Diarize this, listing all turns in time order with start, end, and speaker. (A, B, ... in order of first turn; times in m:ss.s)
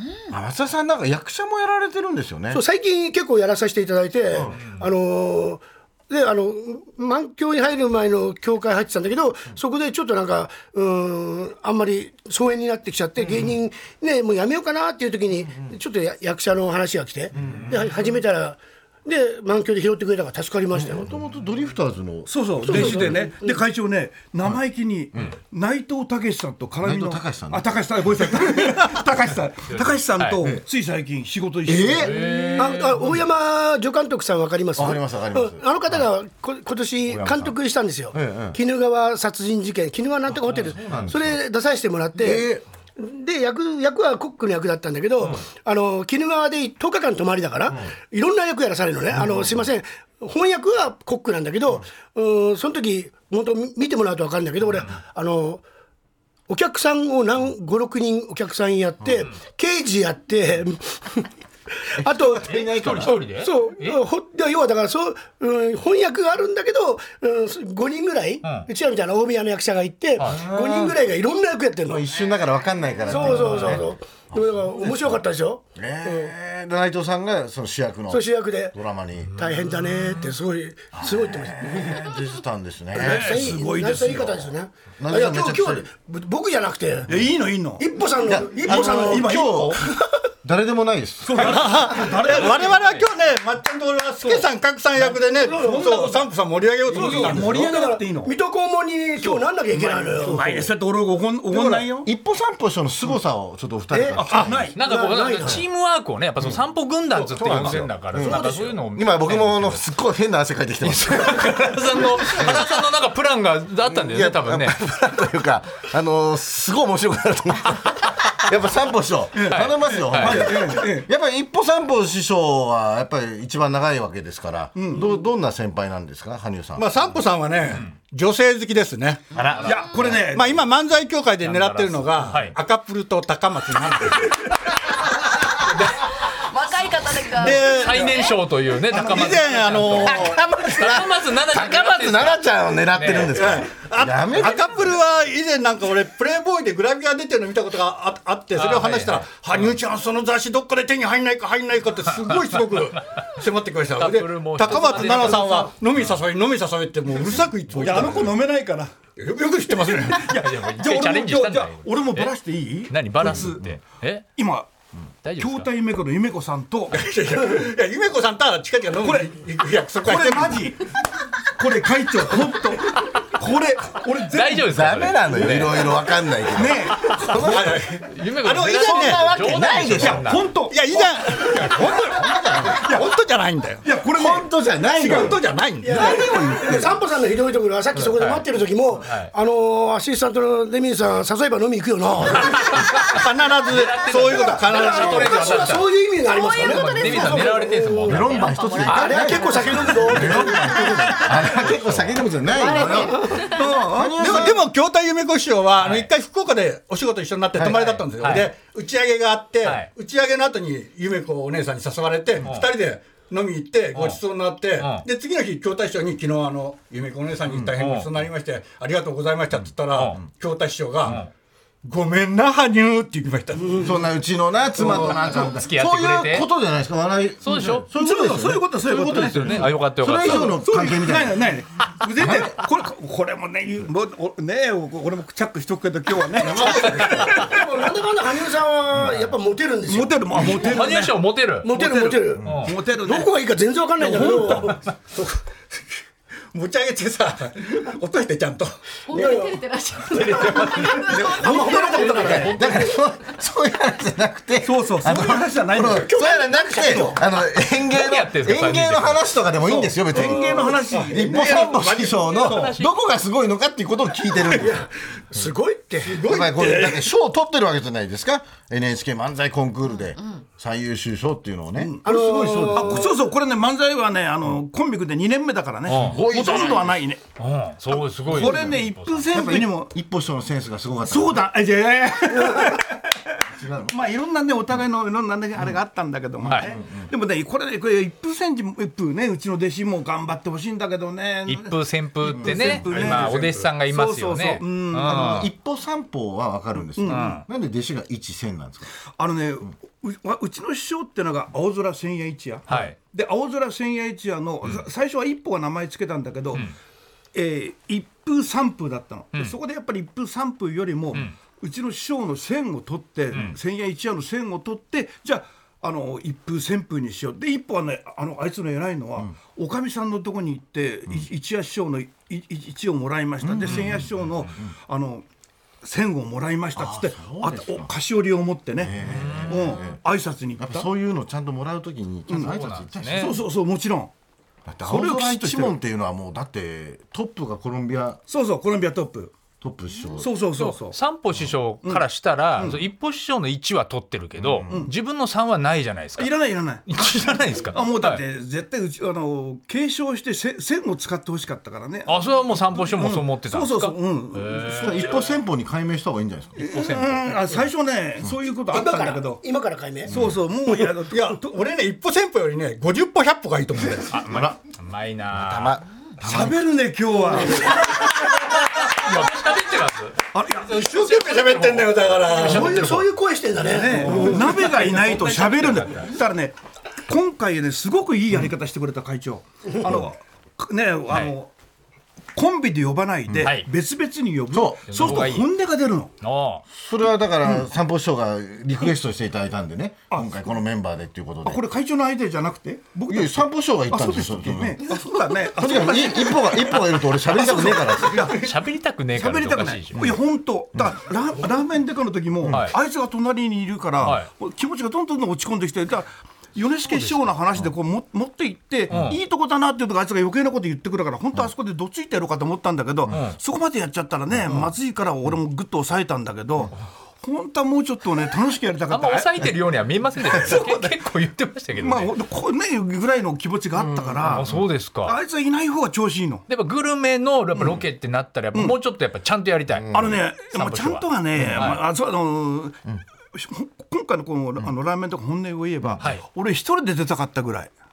0:00.3-0:02.6 A
0:02.5-0:21.1 B
0:04.3-0:04.6 A
0:04.5-0:04.9 C
0:17.3-0:17.7 A
0:17.4-0:17.8 C
0:20.7-0:23.2 A
0:22.3-0:32.3 D
0:22.6-0:23.6 B
0:26.8-0:28.5 A
0:29.7-0:30.4 C
0:31.6-0:55.6 B
0:32.0-0:33.0 C
0:34.8-0:35.6 A
0:37.1-0:37.5 C
0:38.1-0:38.6 A
0:40.5-0:41.1 C
0:40.8-0:41.4 A
0:42.2-0:42.6 A
0:49.1-0:49.6 A
0:56.5-1:01.3 B
1:01.9-1:12.0 B
1:02.0-1:03.2 A
1:02.5-1:04.0 C
1:10.2-1:11.0 A
1:11.8-1:15.2 A
1:13.1-1:16.3 B
1:13.2-1:13.8 C
1:15.8-1:19.4 A
1:18.1-1:18.7 B
1:19.3-1:22.0 B
1:20.9-1:24.4 A
1:22.9-1:27.1 B
1:23.0-1:24.4 D
1:25.0-1:25.9 A
1:27.1-1:27.8 D
1:27.8-1:29.4 B
1:28.2-1:29.8 A
1:28.5-1:29.9 D
1:30.4-1:31.8 A
1:31.2-1:33.0 D
1:31.4-1:37.9 E
1:34.2-1:36.3 D
1:35.4-1:36.0 B
1:36.8-1:38.3 D
1:36.9-1:40.7 B
1:39.2-1:42.1 D
1:41.6-1:44.7 A
1:43.9-1:45.6 B
1:44.2-1:44.7 D
1:44.8-1:49.8 C
1:47.1-1:52.8 A
1:47.5-1:47.8 D
1:48.2-1:48.7 B
1:50.8-1:54.8 C
1:53.8-2:06.9 A
1:59.3-2:01.1 D
1:59.5-2:00.6 C
2:04.8-2:05.1 D
2:06.8-2:09.4 E
2:09.3-2:10.1 A
2:09.4-2:10.5 D
2:09.6-2:10.1 C
2:10.2-2:14.9 E
2:11.4-2:12.5 C
2:15.7-2:16.1 C
2:16.5-2:17.8 F
2:17.3-2:18.3 E
2:17.3-2:23.4 C
2:18.9-2:20.7 E
2:20.3-2:24.9 A
2:23.3-2:38.3 E
2:28.6-2:29.8 C
2:32.3-2:33.2 C
2:34.0-2:36.2 C
2:37.7-2:38.9 D
2:37.9-2:38.2 C
2:39.2-2:40.4 E
2:39.8-2:43.7 D
2:40.3-2:42.3 C
2:42.9-2:44.3 C
2:43.2-2:43.6 A
2:44.4-2:44.7 D
2:45.2-2:45.7 C
2:45.4-2:47.1 D
2:46.9-2:50.7 E
2:49.0-2:49.3 D
2:50.0-2:50.9 D
2:51.5-2:54.8 D
2:54.3-2:56.0 C
2:54.6-2:57.8 A
2:56.5-2:57.8 D
2:57.3-2:59.4 E
2:58.1-3:00.5 C
2:58.7-3:00.3 A
3:00.0-3:01.8 D
3:00.7-3:03.8 E
3:02.1-3:02.9 A
3:02.7-3:03.1 D
3:03.8-3:06.9 D
3:04.1-3:05.4 A
3:05.0-3:06.8 E
3:05.8-3:12.9 B
3:06.5-3:06.9 A
3:08.2-3:08.4 C
3:09.0-3:09.3 C
3:12.6-3:15.7 E
3:12.6-3:20.3 C
3:14.2-3:18.2 B
3:16.4-3:17.7 F
3:18.0-3:24.6 A
3:18.4-3:21.0 F
3:18.8-3:21.2 B
3:21.1-3:22.3 C
3:22.5-3:23.6 F
3:22.7-3:23.5 B
3:23.4-3:24.6 D
3:24.1-3:41.2 E
3:25.8-3:26.1 C
3:27.6-3:28.0 A
3:28.2-3:28.5 C
3:34.8-3:35.0 C
3:37.7-3:38.1 C
3:39.9-3:40.2 C
3:41.0-3:41.3 C
3:41.8-3:43.9 E
3:43.8-3:51.5 A
3:44.8-3:45.2 D
3:45.0-3:46.5 C
3:47.4-3:47.9 C
3:47.6-3:57.6 D
3:49.0-3:50.6 C
3:52.2-3:52.6 A
3:56.4-3:57.4 A
3:56.6-4:00.6 B
3:57.0-3:57.3 C
3:58.9-3:59.2 A
3:59.9-4:03.3 D
4:00.4-4:01.7 C
4:01.6-4:04.8 B
4:02.4-4:02.7 A
4:02.4-4:02.7 C
4:04.0-4:04.8 D
4:06.5-4:08.8 E
4:09.1-4:12.5 B
4:09.1-4:12.5 F
4:10.1-4:13.0 C
4:10.9-4:12.5 D
4:11.0-4:12.5 E
4:12.5-4:24.8 A
4:14.6-4:17.2 D
4:16.1-4:17.2 B
4:17.8-4:19.2 C
4:19.6-4:22.7 D
4:20.9-4:22.3 E
4:22.2-4:22.9 C
4:24.4-4:24.9 E
4:25.3-4:26.2 B
4:26.0-4:27.0 E
4:26.2-4:33.1 A
4:31.8-4:32.0 D
4:32.0-4:33.1 B
4:32.7-4:37.2 D
4:35.9-4:36.2 C
4:35.9-4:37.0 A
4:37.4-4:39.3 C
4:37.9-4:39.9 D
4:38.3-4:41.5 A
4:41.1-4:55.4 D
4:43.5-4:43.9 A
4:46.4-4:46.7 C
4:46.5-4:47.1 A
4:51.5-4:55.5 C
4:52.4-4:52.8 A
4:52.8-4:53.7 E
4:55.0-4:58.9 A
4:56.9-4:57.4 D
4:57.0-4:57.4 C
4:59.2-5:06.7 D
5:02.7-5:02.9 C
5:07.3-5:25.2 D
5:13.3-5:13.6 C
5:23.4-5:24.1 A
5:23.6-5:24.5 C
5:25.8-5:30.9 D
5:26.7-5:27.9 A
5:28.8-5:30.0 A
5:29.0-5:29.8 C
5:30.6-5:33.4 A
5:32.4-5:33.4 C
5:33.1-5:34.1 D
5:34.6-5:38.2 A
5:34.8-5:35.8 D
5:38.3-5:39.3 D
5:39.6-5:40.3 A
5:40.2-5:41.0 D
5:40.6-5:46.3 C
5:42.6-5:42.8 D
5:44.4-5:44.8 A
5:44.7-5:44.9 D
5:46.2-5:47.1 D
5:46.9-5:48.2 C
5:47.7-5:55.2 D
5:52.1-5:55.4 C
5:54.7-5:56.6 A
5:56.6-5:57.6 C
5:56.6-5:59.4 D
5:58.7-6:00.1 B
6:00.1-6:00.4 A
6:00.1-6:01.4 D
6:01.1-6:04.2 E
6:04.1-6:05.8 C
6:04.3-6:04.6 A
6:05.3-6:06.6 A
6:06.2-6:08.0 D
6:07.8-6:13.1 C
6:10.3-6:10.8 D
6:10.6-6:12.9 E
6:12.4-6:14.4 B
6:13.6-6:16.6 D
6:14.0-6:16.1 C
6:17.1-6:21.5 D
6:22.3-6:26.1 D
6:23.4-6:23.7 C
6:24.5-6:25.3 A
6:24.9-6:25.5 C
6:26.2-6:26.6 C
6:26.7-6:31.6 A
6:30.1-6:30.4 D
6:31.4-6:38.5 D
6:33.1-6:34.9 A
6:35.5-6:38.3 A
6:38.3-6:40.2 C
6:39.1-6:59.5 D
6:42.4-6:42.6 A
6:42.5-6:42.8 C
6:44.0-6:44.3 C
6:48.9-6:49.2 C
6:53.1-6:53.4 C
6:58.9-7:02.1 C
7:00.2-7:01.0 D
7:01.8-7:06.4 D
7:03.8-7:04.6 A
7:04.2-7:05.2 C
7:06.5-7:11.8 C
7:09.7-7:10.2 A
7:09.9-7:17.7 D
7:11.4-7:11.7 A
7:16.0-7:16.2 C